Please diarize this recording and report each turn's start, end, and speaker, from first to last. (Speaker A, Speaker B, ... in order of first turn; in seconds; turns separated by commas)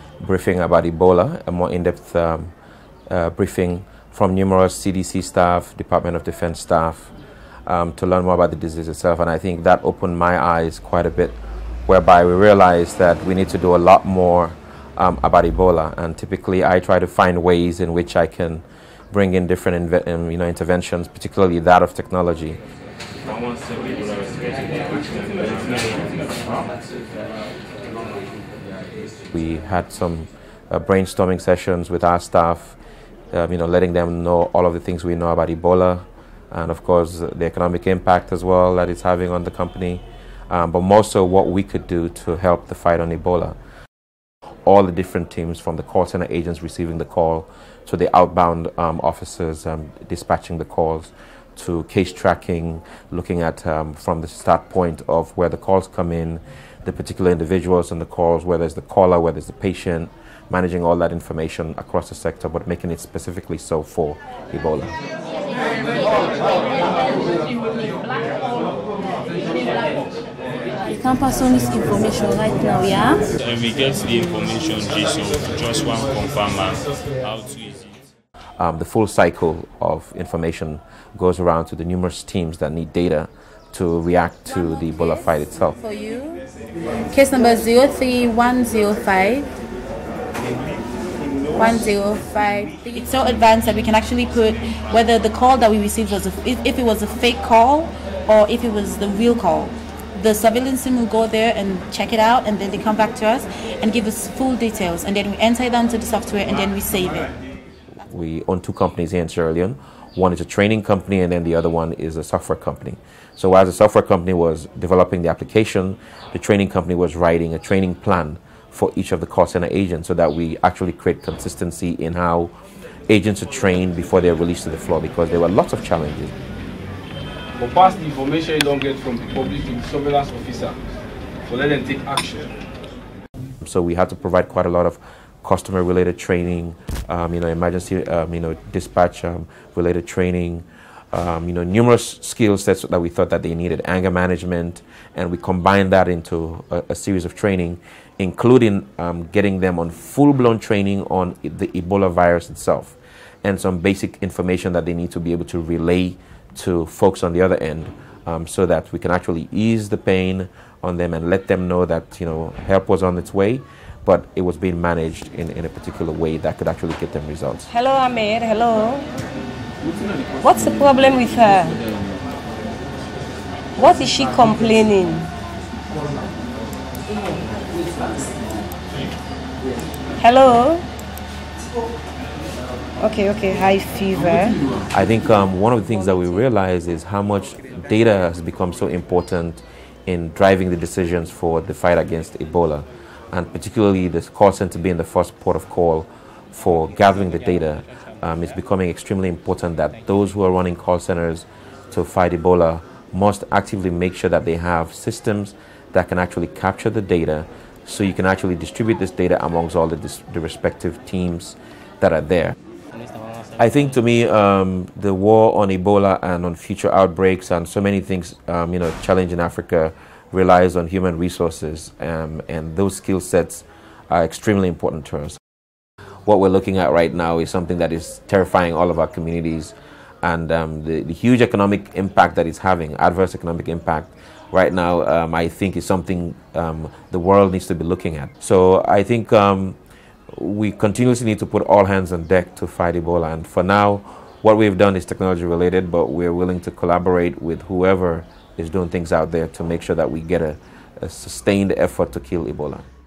Speaker A: 0.2-2.5, Speaker A: 3.1-7.1, Speaker A: 7.7-22.6, Speaker A: 29.3-32.8, Speaker A: 33.3-43.5, Speaker A: 44.7-64.9, Speaker B: 70.9-73.0, Speaker C: 73.4-78.0, Speaker A: 78.6-85.8, Speaker B: 84.7-85.2, Speaker B: 85.8-86.4, Speaker B: 87.1-89.5, Speaker B: 91.5-107.3, Speaker A: 108.0-122.5, Speaker A: 123.1-126.3, Speaker D: 127.6-130.8, Speaker D: 131.5-132.5, Speaker A: 133.6-167.7, Speaker E: 167.7-169.1, Speaker E: 170.4-171.8, Speaker E: 173.8-175.3, Speaker E: 180.2-180.8, Speaker E: 183.0-184.6, Speaker A: 184.9-212.6, Speaker E: 212.9-213.6, Speaker A: 213.6-225.4, Speaker A: 226.3-239.8, Speaker A: 240.3-252.8